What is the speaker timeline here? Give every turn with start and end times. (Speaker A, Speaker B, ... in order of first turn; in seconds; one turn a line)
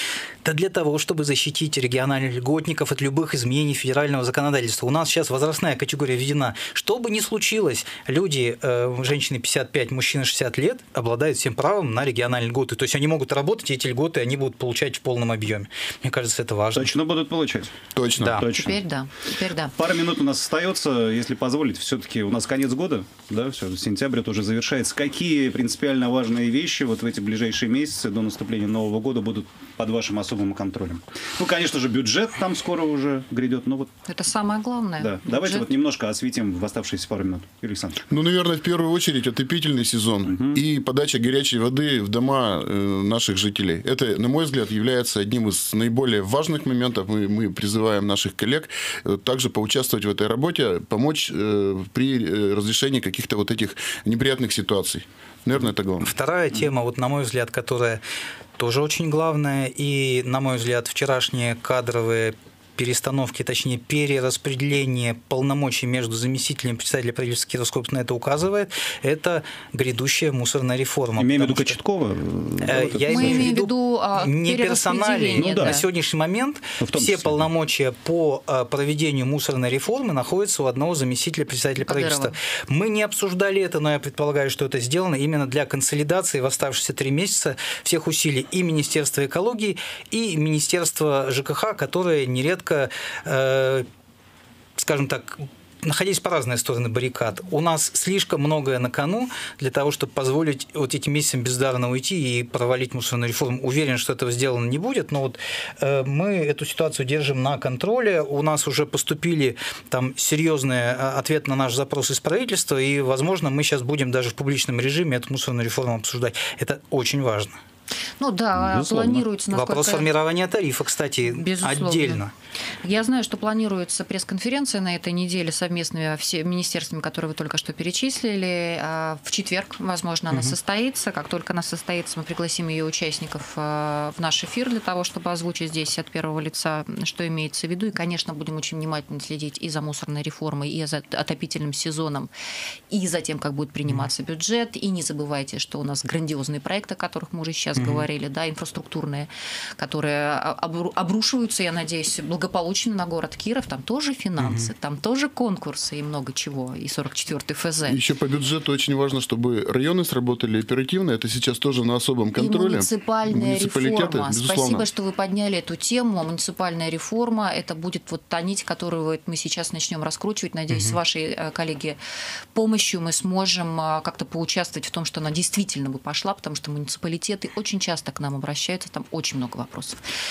Speaker A: 0.4-16.9
Speaker B: 16.8-17.7
Speaker C: 17.9-18.5
Speaker A: 18.2-18.4
Speaker B: 18.4-18.8
Speaker D: 18.5-19.8
Speaker B: 19.8-33.9
Speaker D: 34.1-35.7
Speaker B: 35.0-38.0
Speaker C: 38.1-56.1
Speaker B: 40.3-40.6
Speaker A: 56.0-58.0
Speaker A: 58.6-71.8
Speaker B: 71.2-73.5
Speaker A: 72.6-93.9
Speaker D: 73.1-75.8
Speaker B: 75.4-75.8
Speaker B: 76.8-77.5
Speaker D: 81.8-82.3
Speaker A: 94.8-117.6
Speaker D: 118.2-120.1
Speaker B: 118.5-119.2
Speaker A: 119.5-122.3
Speaker D: 121.2-122.2
Speaker D: 122.8-142.3
Speaker A: 130.3-130.6
Speaker D: 142.9-158.0
Speaker A: 147.8-148.1
Speaker A: 154.4-154.7
Speaker C: 157.9-164.9
Speaker D: 162.4-172.0
Speaker A: 170.7-171.0
Speaker D: 172.5-180.0